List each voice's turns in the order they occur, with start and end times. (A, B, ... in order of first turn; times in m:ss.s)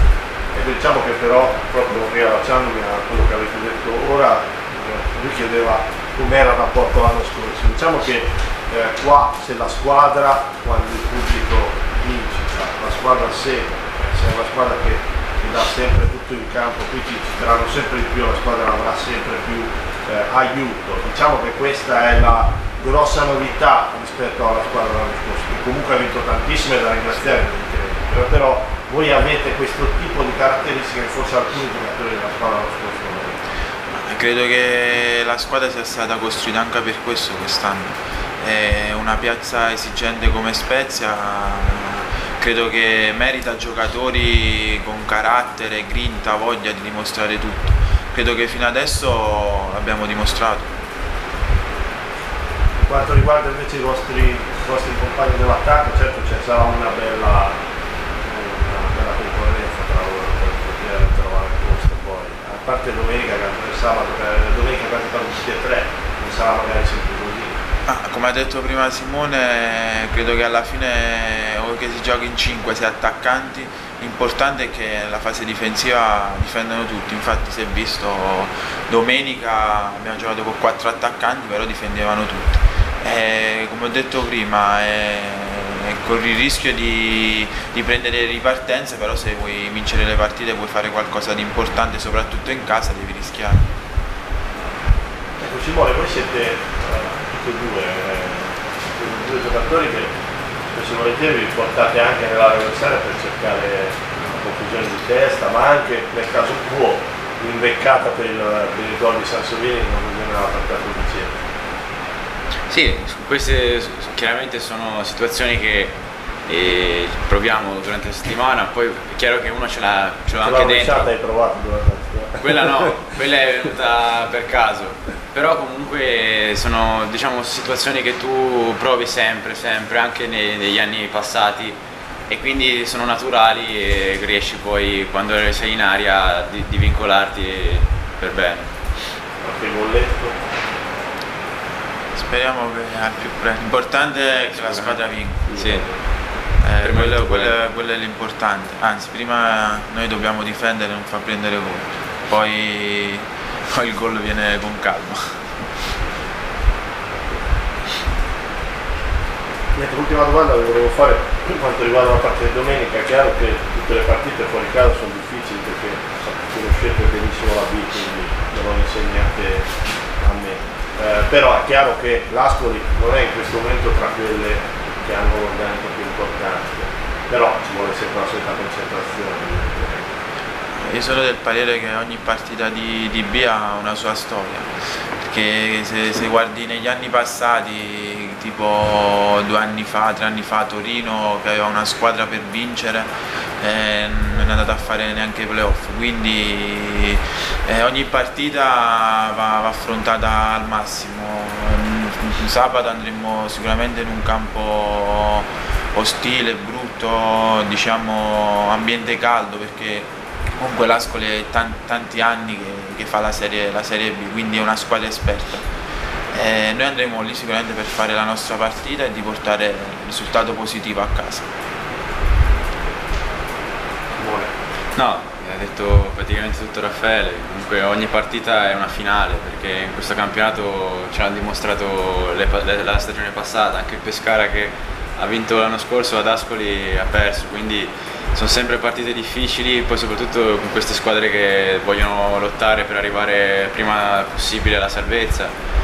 0:00.5-0:33.4 A
0:33.9-0:50.7 B
0:52.8-0:57.6 A
0:58.2-1:07.5 A
1:07.9-1:33.7 B
1:35.4-1:40.1 A
1:40.7-1:51.4 A
1:52.7-1:56.0 C
1:56.5-2:01.1 C
2:00.3-2:03.0 A
2:02.4-2:11.8 C
2:12.3-2:18.7 C
2:19.4-2:20.4 A
2:22.1-2:25.4 B
2:24.5-2:25.8 C
2:25.5-2:26.0 A
2:26.6-2:35.5 B
2:26.8-2:27.6 C
2:39.7-3:00.1 A
3:00.8-3:35.7 B
3:36.3-3:41.5 B
3:44.2-3:44.5 A
3:44.9-4:05.5 C